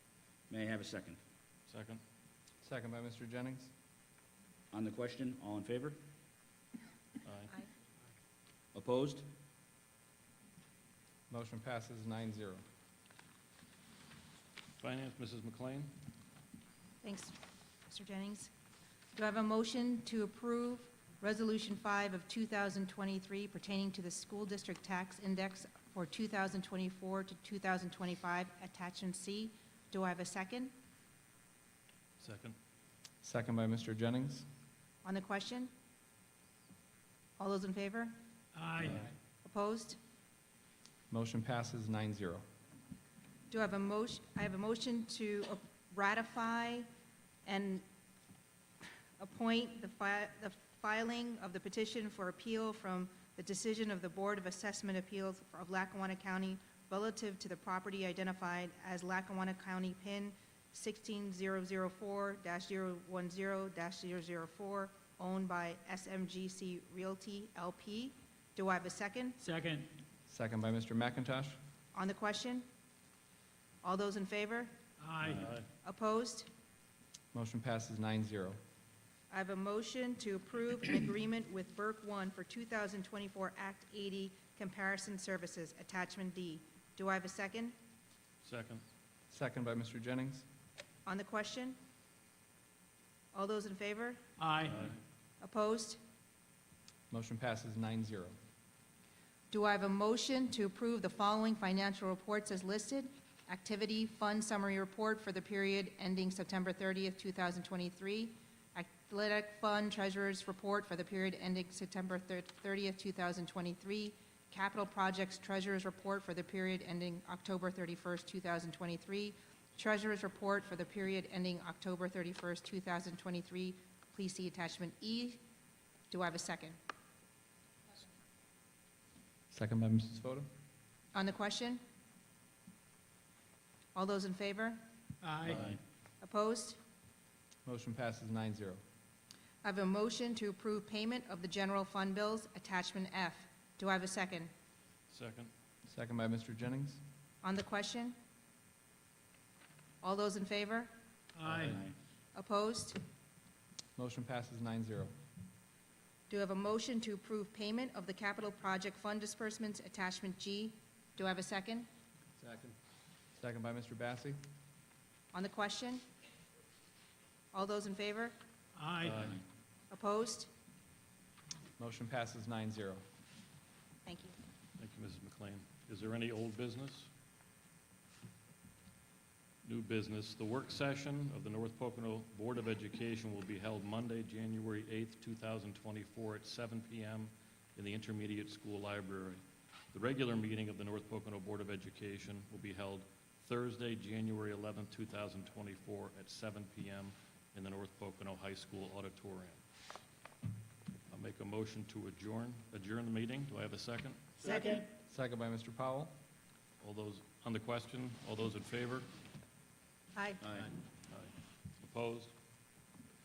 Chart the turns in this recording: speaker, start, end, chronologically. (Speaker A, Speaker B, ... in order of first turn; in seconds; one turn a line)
Speaker A: 0.5-1.2
Speaker B: 1.7-2.0
Speaker C: 2.6-3.7
Speaker A: 4.7-6.0
Speaker B: 7.2-7.5
Speaker A: 8.7-9.2
Speaker C: 11.3-12.6
Speaker B: 14.8-15.9
Speaker D: 17.0-17.3
Speaker D: 17.9-18.5
Speaker D: 19.1-30.7
Speaker B: 32.2-32.5
Speaker C: 33.2-34.5
Speaker D: 35.0-35.7
Speaker D: 37.4-38.2
Speaker E: 38.5-39.1
Speaker D: 39.4-40.0
Speaker C: 41.1-42.4
Speaker D: 43.5-46.9
Speaker D: 47.5-47.8
Speaker D: 48.8-69.4
Speaker E: 69.4-69.9
Speaker C: 70.3-71.6
Speaker D: 71.9-72.6
Speaker D: 73.8-74.7
Speaker E: 75.0-75.5
Speaker B: 75.3-75.7
Speaker D: 75.8-76.5
Speaker C: 77.3-78.6
Speaker D: 79.3-87.7
Speaker B: 88.4-88.8
Speaker C: 89.3-90.5
Speaker D: 91.0-91.8
Speaker D: 93.3-94.2
Speaker E: 94.4-94.9
Speaker B: 94.6-95.0
Speaker D: 95.4-96.0
Speaker C: 97.1-98.3
Speaker D: 99.5-125.4
Speaker D: 126.1-126.8
Speaker C: 129.5-130.5
Speaker D: 131.1-131.8
Speaker D: 133.9-134.8
Speaker E: 135.2-135.6
Speaker B: 135.5-135.8
Speaker A: 135.5-135.7
Speaker D: 136.2-136.8
Speaker C: 137.6-138.8
Speaker D: 139.6-144.5
Speaker B: 145.1-145.5
Speaker C: 145.8-147.0
Speaker D: 147.4-148.1
Speaker D: 150.0-150.9
Speaker E: 151.4-151.8
Speaker A: 151.5-151.9
Speaker D: 152.3-153.0
Speaker C: 153.9-155.1
Speaker D: 156.3-161.9
Speaker C: 163.4-164.4
Speaker D: 165.3-166.0
Speaker D: 167.5-168.3
Speaker E: 168.7-169.3
Speaker B: 169.0-169.4
Speaker D: 169.9-170.5
Speaker C: 171.8-173.0
Speaker D: 174.1-174.3
Speaker B: 174.8-177.1
Speaker B: 179.6-189.4
Speaker B: 189.9-199.6
Speaker B: 201.1-204.3
Speaker D: 204.4-204.8
Speaker C: 205.0-206.1
Speaker B: 206.8-209.1
Speaker D: 210.1-210.4
Speaker A: 210.4-210.7
Speaker B: 211.1-212.3